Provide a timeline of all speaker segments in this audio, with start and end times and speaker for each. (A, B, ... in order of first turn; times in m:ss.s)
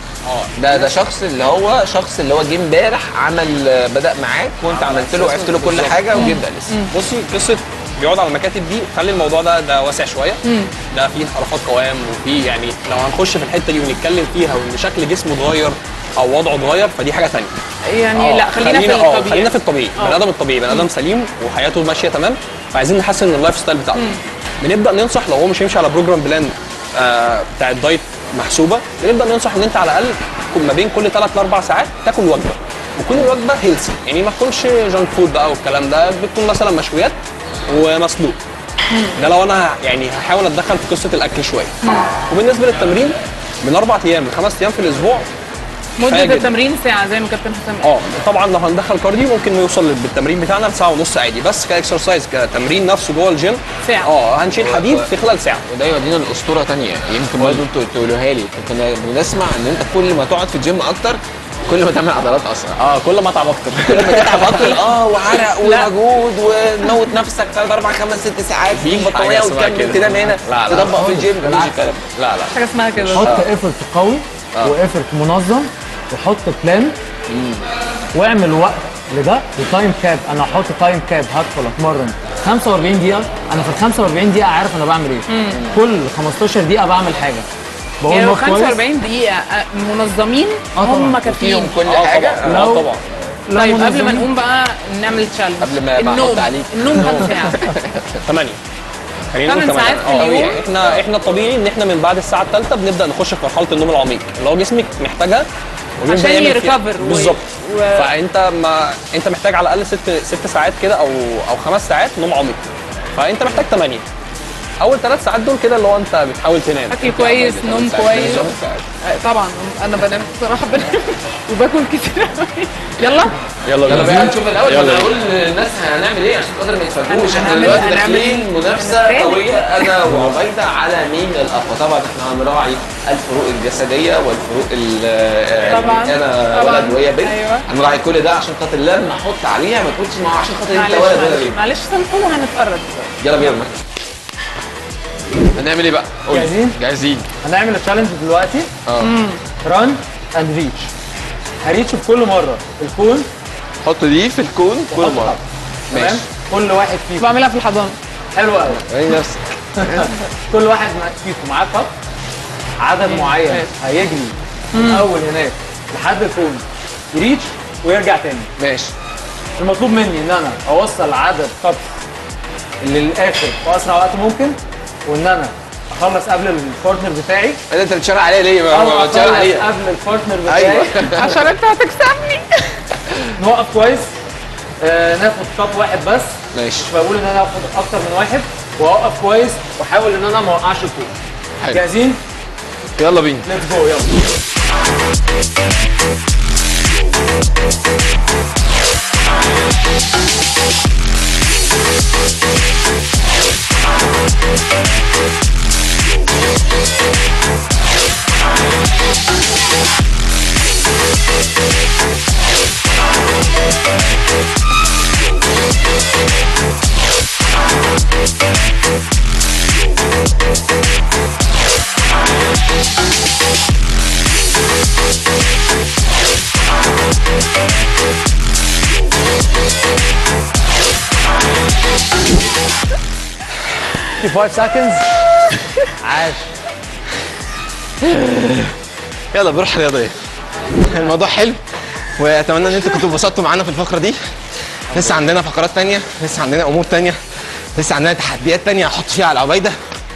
0:00.2-0:01.0 A
0:00.6-0:06.8 B
0:04.7-0:06.3 A
0:06.1-0:06.9 C
0:06.9-0:17.5 A
0:10.4-0:10.7 C
0:17.8-0:20.9 C
0:18.1-0:37.2 A
0:23.9-0:24.2 C
0:33.1-0:33.3 B
0:37.7-0:38.4 A
0:38.9-0:39.2 C
0:39.2-0:41.7 A
0:41.8-0:42.1 C
0:42.3-0:45.2 A
0:46.0-0:47.9 C
0:46.0-0:46.5 A
0:47.8-0:55.6 A
0:53.8-0:54.1 C
0:54.6-0:55.1 B
0:55.7-1:02.8 B
0:57.4-0:57.6 A
1:02.8-1:04.8 A
1:03.9-1:12.2 B
1:05.6-1:05.9 C
1:08.7-1:11.0 A
1:10.8-1:11.7 D
1:12.2-1:13.3 A
1:12.5-1:13.3 C
1:13.1-1:17.0 D
1:13.2-1:13.5 B
1:17.3-1:17.6 B
1:18.1-1:27.4 D
1:25.3-1:25.8 C
1:28.0-1:28.8 D
1:28.1-1:31.8 C
1:30.7-1:31.2 D
1:31.2-1:32.7 B
1:31.8-1:33.0 A
1:32.4-1:32.9 D
1:33.5-1:34.3 D
1:33.5-1:37.7 C
1:35.6-1:38.2 B
1:37.0-1:37.3 A
1:38.2-1:38.6 A
1:39.3-1:45.5 A
1:39.4-1:40.6 C
1:40.1-1:41.0 B
1:46.0-1:52.6 A
1:46.0-1:48.1 C
1:53.1-1:54.0 A
1:54.8-1:57.1 A
1:56.9-1:58.5 C
1:57.0-1:58.8 B
1:58.2-1:58.5 A
1:59.0-2:03.3 C
2:03.7-2:05.1 A
2:03.9-2:21.6 B
2:07.1-2:09.9 C
2:10.1-2:10.3 A
2:15.7-2:17.6 C
2:20.7-2:23.1 C
2:23.2-2:23.9 B
2:25.5-2:27.2 B
2:26.3-2:26.8 D
2:27.4-2:28.7 D
2:28.8-2:29.1 B
2:29.0-2:29.4 C
2:29.6-2:30.9 D
2:31.6-2:33.3 D
2:33.8-2:35.4 B
2:34.9-2:37.3 D
2:35.9-2:36.2 B
2:37.2-2:38.0 C
2:38.3-2:38.9 D
2:38.8-2:40.1 B
2:39.8-2:41.9 D
2:42.8-2:48.5 D
2:43.0-2:43.7 C
2:44.7-2:45.0 C
2:48.6-2:48.9 B
2:49.6-2:51.9 D
2:52.8-2:57.6 D
2:57.7-2:59.7 B
2:58.7-3:01.1 D
3:00.4-3:01.3 B
3:01.0-3:02.8 C
3:03.4-3:04.1 D
3:04.8-3:11.1 D
3:06.5-3:06.9 B
3:11.7-3:12.2 D
3:13.0-3:13.5 B
3:13.4-3:14.2 D
3:54.2-3:55.1 D
3:56.0-3:56.6 D
3:58.0-3:58.7 B
3:59.3-4:00.2 B
4:00.8-4:09.8 B